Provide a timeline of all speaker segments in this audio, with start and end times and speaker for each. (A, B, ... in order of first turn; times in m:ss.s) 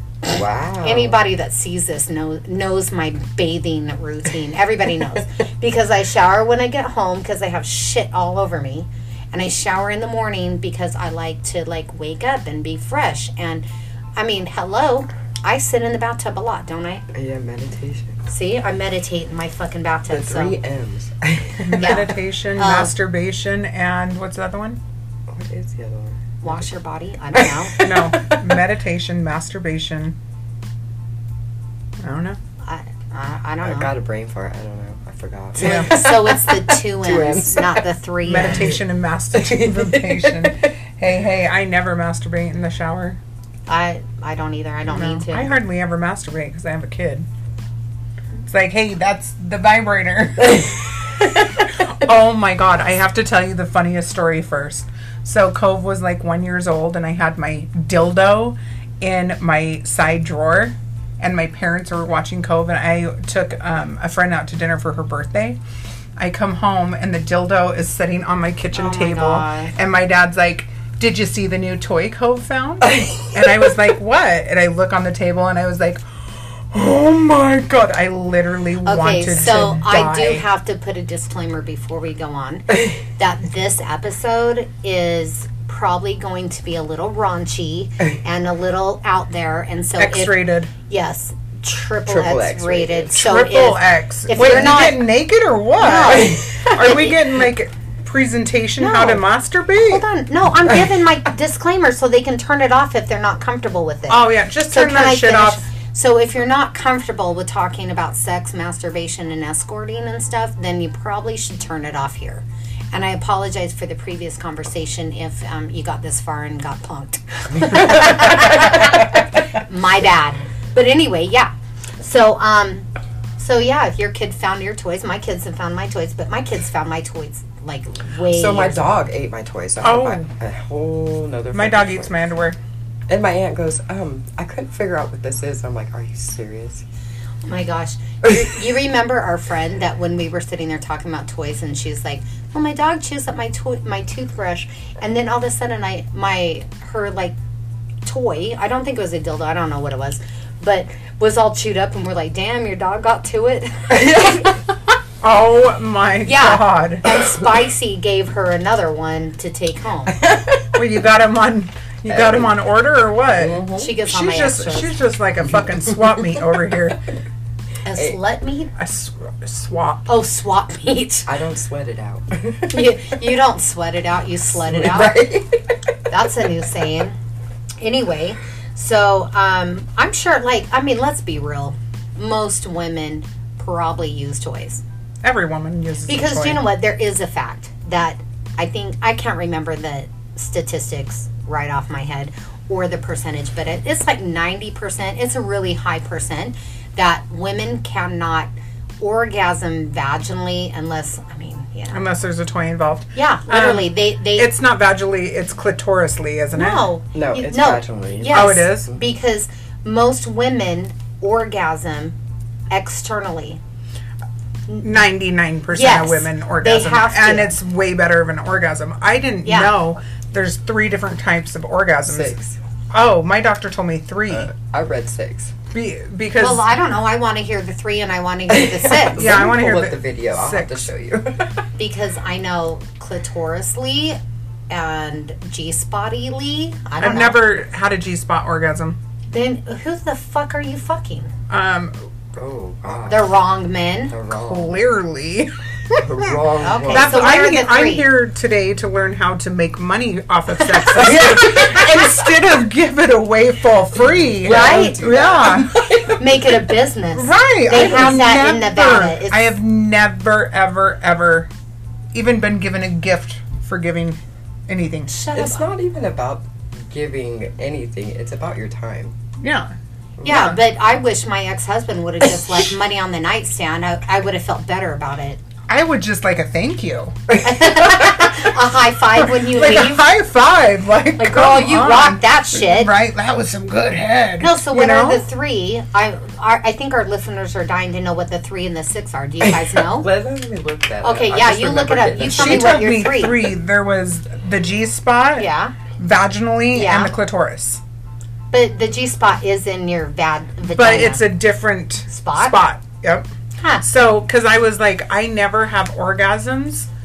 0:00.2-0:01.2 A
0:00.8-0:17.0 B
0:17.1-0:18.3 A
0:18.3-0:20.6 B
0:20.1-0:22.0 A
0:21.6-0:24.8 C
0:21.8-0:22.9 B
0:25.3-0:26.7 A
0:26.4-0:27.8 B
0:27.4-0:28.6 A
0:27.8-0:30.2 C
0:32.0-0:32.4 C
0:32.6-0:33.9 B
0:33.6-0:37.9 A
0:35.6-0:35.9 C
0:35.6-0:38.8 B
0:38.2-0:43.2 C
0:38.5-0:38.8 A
0:39.3-0:40.7 A
0:43.7-0:45.6 B
0:44.9-0:47.3 C
0:48.5-1:05.6 C
1:06.2-1:20.4 C
1:08.7-1:09.7 B
1:12.8-1:13.6 A
1:18.8-1:35.0 B
1:30.0-1:30.7 C
1:32.1-1:33.2 A
1:33.2-1:40.0 C
1:35.8-1:37.1 B
1:38.8-1:39.2 B
1:39.8-2:02.9 B
1:44.1-1:45.6 C
1:57.9-1:58.4 C
2:03.4-2:09.0 B
2:08.2-2:12.2 A
2:09.8-2:10.3 C
2:11.5-2:12.6 C
2:13.1-2:16.8 A
2:17.4-2:27.4 B
2:28.0-2:34.6 B
2:33.9-2:34.5 A
2:35.2-2:37.2 C
2:36.2-2:40.2 B
2:40.2-2:40.8 A
2:40.7-2:47.0 C
2:42.1-2:42.5 A
2:43.4-2:44.0 A
2:43.8-2:45.0 B
2:45.4-2:46.6 A
2:47.8-2:48.7 B
2:48.8-2:50.1 C
2:50.1-2:51.3 B
2:51.3-2:53.1 A
2:52.7-2:55.3 B
2:54.6-2:55.8 A
2:56.1-2:57.2 B
2:57.8-3:04.8 B
3:05.2-3:06.6 C
3:06.1-3:22.0 B
3:21.9-3:26.9 C
3:23.2-3:24.5 B
3:26.5-3:32.2 B
3:27.1-3:29.0 A
3:28.3-3:28.9 C
3:32.7-3:33.6 B
3:34.7-3:35.0 B
3:34.8-3:42.4 C
3:35.7-3:37.6 B
3:39.4-3:39.7 B
3:42.1-3:42.6 A
3:42.9-3:44.5 C
3:44.3-3:45.5 A
3:45.7-3:46.7 C
3:46.4-3:49.3 B
3:48.5-3:51.5 A
3:49.2-3:50.9 C
3:51.8-3:54.2 B
3:54.7-3:57.4 B
3:57.0-3:59.0 C
3:59.3-4:01.3 B
4:01.5-4:01.9 C
4:02.4-4:03.4 A
4:03.1-4:04.1 B
4:04.1-4:04.8 A
4:04.3-4:06.4 C
4:06.0-4:07.3 A
4:06.6-4:08.1 B
4:06.9-4:15.8 C
4:10.9-4:11.9 A
4:14.1-4:16.6 A
4:14.4-4:15.0 B
4:16.2-4:19.5 B
4:17.2-4:21.5 C
4:22.1-4:25.1 C
4:25.1-4:25.7 B
4:25.3-4:29.2 A
4:29.4-4:29.7 C
4:30.2-4:30.6 A
4:30.2-4:35.4 B
4:35.7-4:38.4 C
4:37.4-4:40.1 B
4:39.2-4:45.2 C
4:41.2-4:42.9 B
4:44.4-4:50.1 B
4:49.4-4:52.8 A
4:51.0-4:53.4 B
4:52.2-4:57.8 C
4:55.4-4:55.7 B
4:56.7-4:57.1 B
4:58.5-5:01.3 B
5:00.7-5:03.3 C
5:02.1-5:02.6 B
5:03.6-5:03.8 B
5:03.8-5:06.9 C